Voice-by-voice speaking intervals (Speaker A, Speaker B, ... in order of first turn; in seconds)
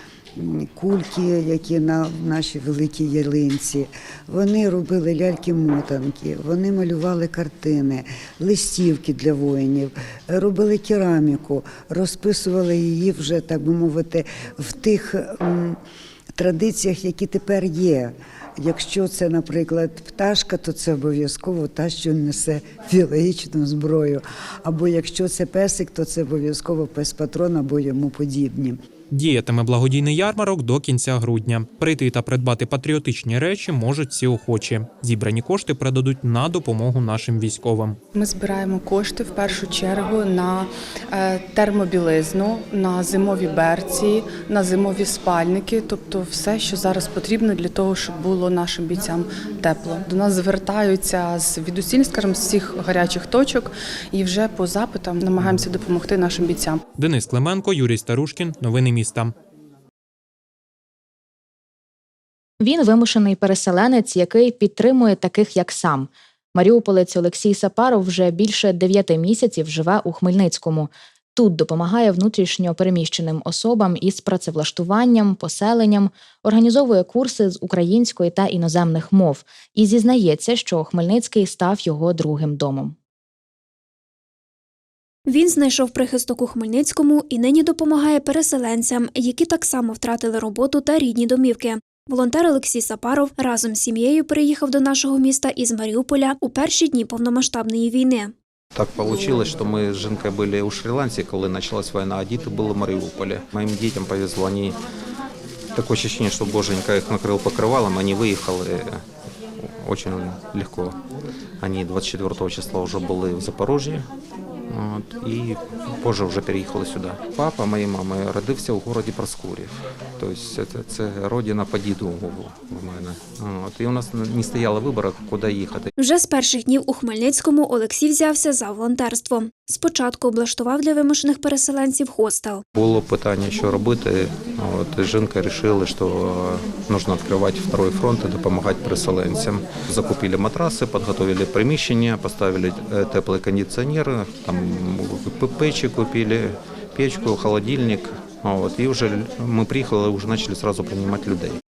Speaker A: 0.4-15.8, 16.4-28.8
Speaker B: 29.1-38.0, 57.0-59.3
Speaker C: 38.1-56.8
Speaker D: 62.6-83.0
Speaker E: 85.3-98.3, 126.0-132.6
Speaker F: 98.8-104.8, 105.8-108.9, 109.8-111.0, 111.6-114.0, 114.7-125.9, 132.8-151.6